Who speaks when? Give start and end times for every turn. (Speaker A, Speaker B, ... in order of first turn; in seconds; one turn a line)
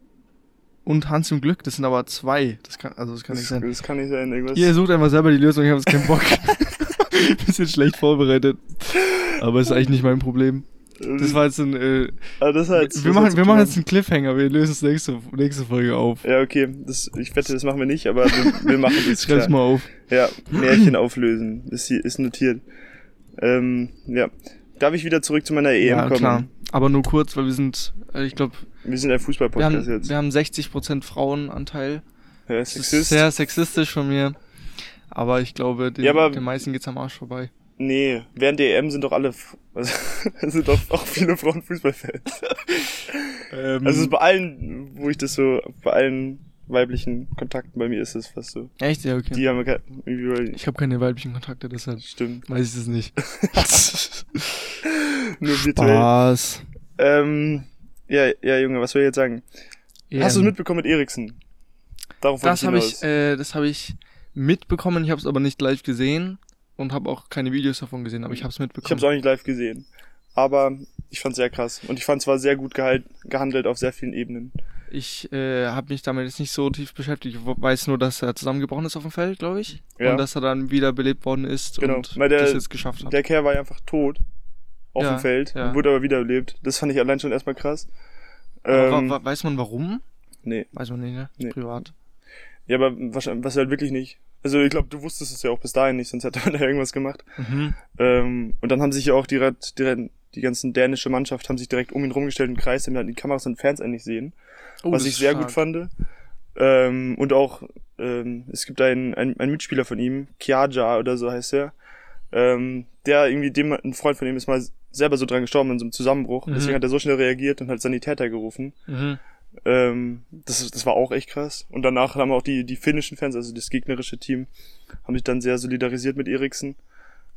Speaker A: 0.8-3.7
Speaker B: 3.3-4.7
Speaker A: 4.5-10.7
Speaker B: 9.7-9.9
Speaker B: 11.0-11.4
Speaker A: 11.2-16.2
Speaker B: 12.4-13.8
Speaker B: 16.2-22.6
Speaker A: 18.5-19.9
Speaker B: 23.4-26.5
Speaker A: 25.8-28.6
Speaker B: 28.8-30.1
Speaker A: 29.6-32.0
Speaker B: 32.5-33.2
Speaker A: 32.7-34.4
Speaker A: 35.1-37.5
Speaker B: 36.0-36.4
Speaker B: 37.8-48.7
Speaker A: 43.5-44.1
Speaker A: 48.8-49.4
Speaker B: 49.3-50.6
Speaker A: 50.5-54.4
Speaker B: 52.0-52.5
Speaker B: 53.2-53.9
Speaker B: 54.8-56.1
Speaker A: 55.5-56.6
Speaker B: 57.0-59.4
Speaker A: 60.1-60.5
Speaker B: 60.2-61.4
Speaker B: 62.2-63.0
Speaker A: 62.4-69.0
Speaker B: 68.8-74.5
Speaker A: 74.9-83.1
Speaker B: 80.0-80.2
Speaker B: 81.8-84.2
Speaker B: 84.9-87.9
Speaker A: 85.0-85.8
Speaker B: 88.6-89.2
Speaker A: 88.7-90.0
Speaker A: 90.7-91.9
Speaker B: 92.7-97.3
Speaker A: 97.4-97.8
Speaker B: 97.8-104.3
Speaker A: 104.8-105.6
Speaker B: 104.9-105.9
Speaker B: 106.5-111.7
Speaker B: 112.3-118.8
Speaker A: 116.5-116.8
Speaker A: 118.9-119.2
Speaker B: 119.6-124.5
Speaker B: 125.0-126.8